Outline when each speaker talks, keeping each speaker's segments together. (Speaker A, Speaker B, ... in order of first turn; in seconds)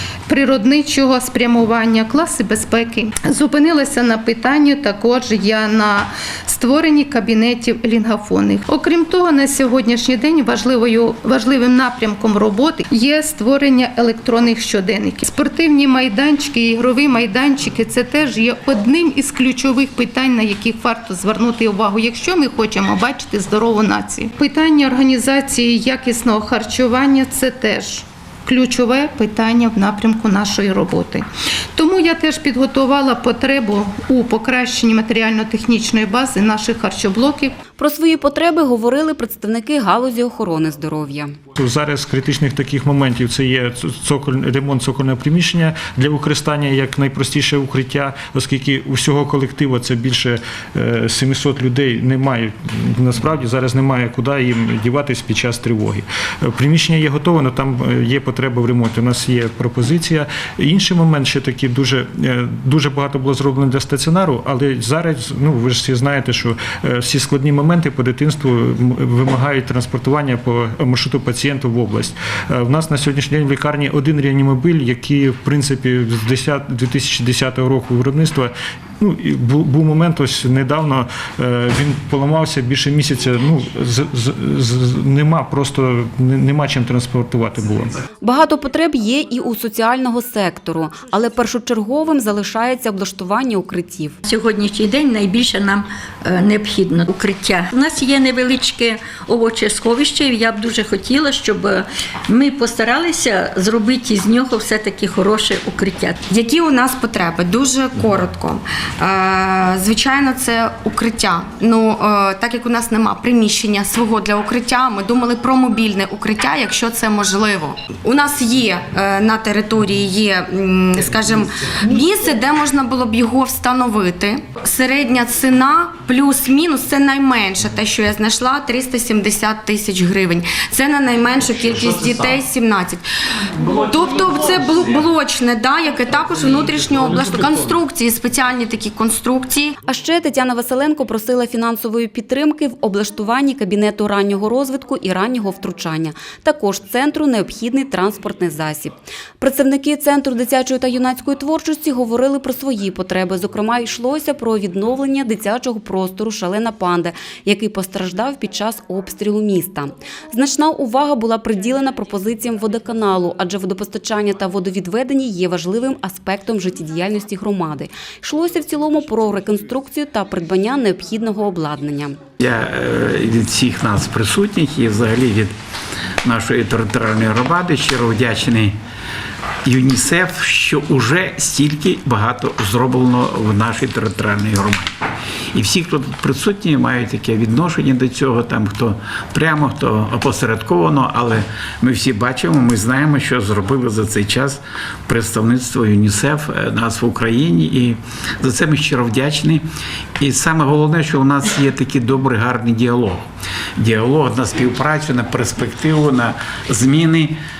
Speaker A: 0.3-37.6
Speaker B: 37.8-41.3, 88.2-94.1, 139.8-172.2
Speaker C: 41.5-87.9
Speaker D: 94.2-106.2
Speaker E: 106.3-133.0, 133.6-139.8
Speaker F: 172.4-175.5, 176.2-178.7, 179.6-184.9, 185.5-199.6, 200.2-203.2, 203.8-207.4